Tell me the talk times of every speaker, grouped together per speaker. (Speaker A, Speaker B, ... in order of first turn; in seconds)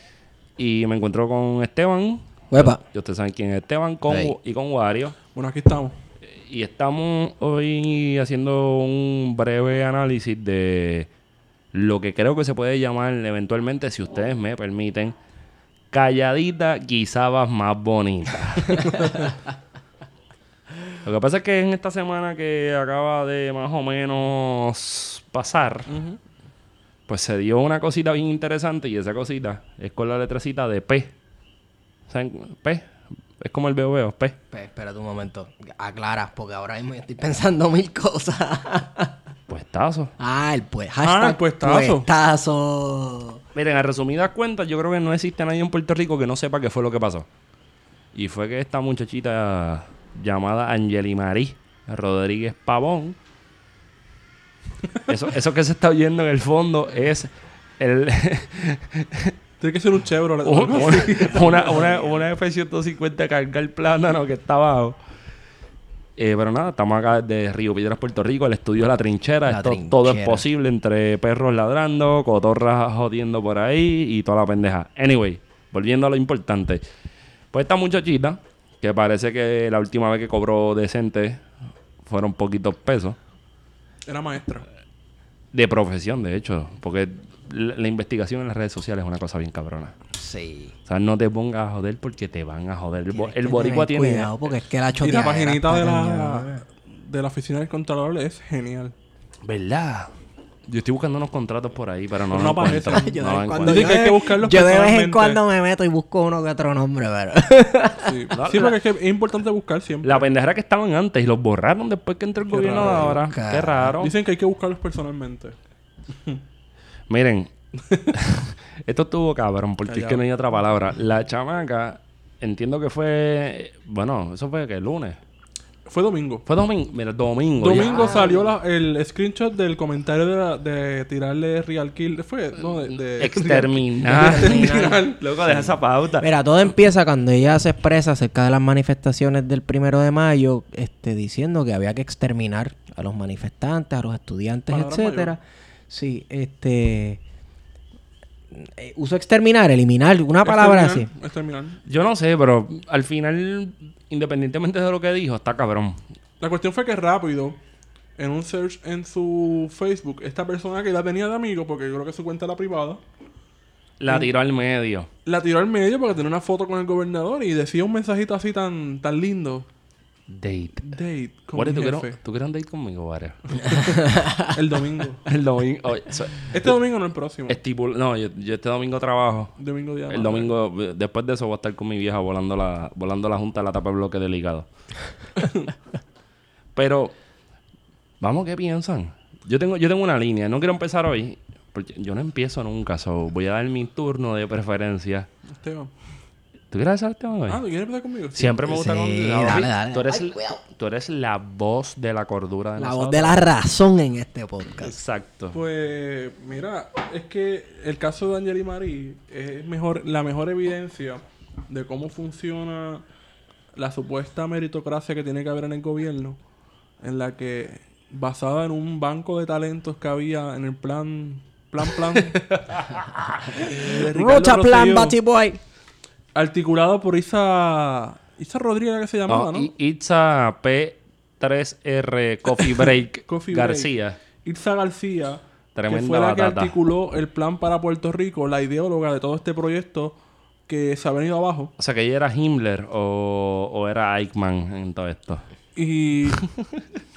Speaker A: 0.6-5.2, 6.2-11.1, 11.7-15.2, 15.9-19.3, 21.0-25.9, 27.1-31.1, 32.1-34.4, 39.5-40.1, 43.5-47.3, 48.1-53.2, 55.0-59.3, 60.4-65.0, 66.2-76.8, 77.5-81.4, 82.0-83.2, 85.5-90.0, 90.8-94.3, 99.4-100.1, 100.7-104.0, 108.3-108.7, 110.0-114.1, 117.1-117.5, 118.1-125.2, 126.5-128.1, 132.8-136.3, 151.8-156.0, 164.0-165.1, 170.3-170.9, 171.5-173.8, 175.2-176.8, 177.5-179.5, 180.1-184.7, 186.7-187.1, 188.2-195.3, 196.7-197.6, 198.3-203.4, 204.8-205.6, 222.5-223.5, 229.3-234.2, 235.7-236.7, 241.8-245.4, 246.4-246.9
Speaker B: 2.5-2.8, 4.1-4.3, 34.5-39.2, 40.2-43.4, 60.8-62.2, 69.5-70.5, 90.1-90.7, 93.1-96.6, 102.6-108.3, 112.8-114.0, 127.7-128.5, 134.0-147.2, 148.5-151.1, 173.7-174.5, 198.7-200.6, 202.8-204.9, 223.4-225.6
Speaker C: 5.3-6.0, 25.9-26.2, 41.0-42.1, 59.6-61.8, 84.0-84.7, 95.0-98.9, 102.3-105.4, 108.0-110.3, 112.5-113.1, 114.0-115.5, 117.8-118.1, 119.9-120.2, 125.8-126.5, 127.6-135.2, 144.7-145.3, 150.4-151.8, 156.4-157.6, 158.2-163.0, 165.2-169.7, 170.9-172.2, 174.5-175.2, 176.5-177.6, 179.6-180.5, 195.5-195.9, 197.5-198.8, 205.5-213.0, 213.8-216.4, 217.0-222.5, 223.7-225.2, 226.3-229.7, 233.3-240.2, 240.7-241.7, 245.7-246.5